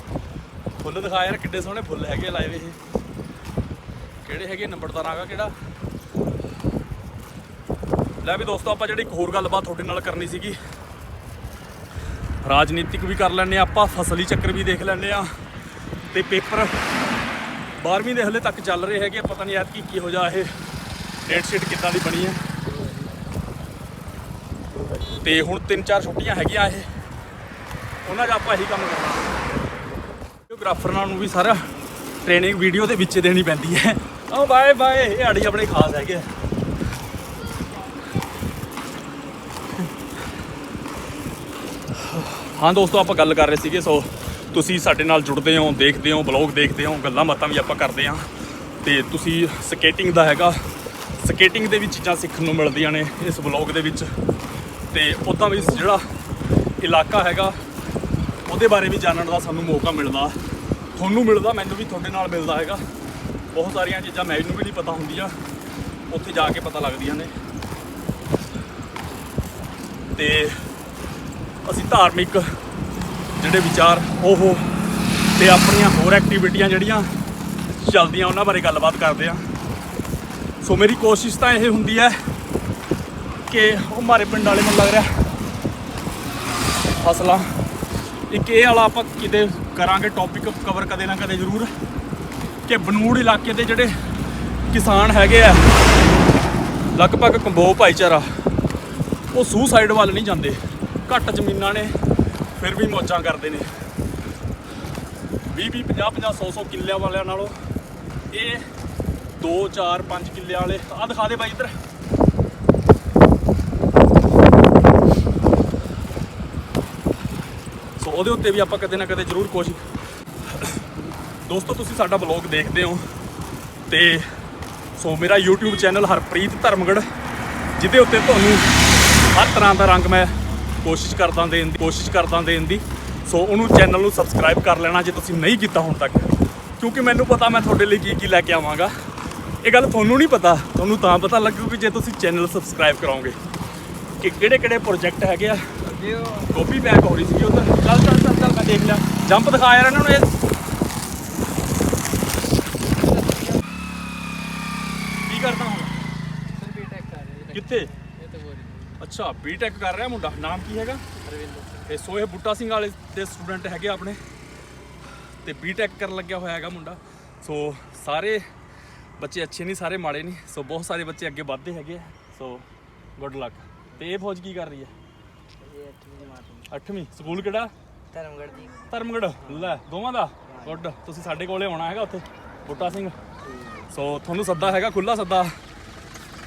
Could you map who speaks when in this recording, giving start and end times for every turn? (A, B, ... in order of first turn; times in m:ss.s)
0:00.8-0:02.8 A
0:04.2-0:05.5 A
0:08.2-0:10.6 A
0:12.4-0:15.3 A
0:16.1-0:16.8 A
0:17.8-0:20.5 A
0:21.3-0:22.4 A
0:22.6-0:23.1 B
0:25.1-0:26.9 A
0:28.0-0:29.3 A
0:30.5-0:31.7 A
0:32.2-0:36.3 A
0:41.9-0:48.3 A
0:48.8-0:50.7 A
0:51.2-0:54.1 A
0:54.9-0:56.0 A
0:56.8-0:57.6 A
0:58.5-1:00.4 A
1:01.0-1:02.8 A
1:03.5-1:05.4 A
1:06.1-1:07.3 A
1:10.2-1:10.6 A
1:11.6-1:12.4 A
1:13.4-1:14.6 A
1:15.4-1:17.1 A
1:17.8-1:19.4 A
1:20.6-1:22.2 A
1:23.5-1:25.1 A
1:27.0-1:27.5 A
1:28.3-1:31.7 A
1:32.7-1:33.9 A
1:34.7-1:35.7 A
1:37.0-1:38.3 A
1:39.3-1:41.9 A
1:42.6-1:43.7 A
1:45.5-1:47.6 A
1:48.3-1:48.7 A
1:49.4-1:51.7 A
1:58.0-1:59.8 A
2:00.5-2:00.8 A
2:01.4-2:03.1 A
2:03.9-2:04.3 A
2:05.0-2:07.1 A
2:07.8-2:08.7 A
2:09.2-2:18.9 A
2:19.6-2:23.4 A
2:24.2-2:25.9 A
2:25.9-2:26.5 B
2:26.5-2:30.3 A
2:33.0-2:33.6 B
2:35.3-2:35.9 A
2:36.6-2:39.0 B
2:37.5-2:37.9 A
2:39.0-2:41.0 A
2:41.2-2:42.0 B
2:41.9-2:44.2 A
2:45.4-2:48.4 A
2:49.2-2:52.7 A
2:53.2-2:54.9 A
2:55.6-2:56.7 B
2:56.7-2:57.7 A
2:58.1-2:58.7 B
2:58.9-3:03.2 A
2:59.4-2:59.7 B
3:00.5-3:00.7 B
3:02.7-3:03.8 B
3:03.9-3:05.5 A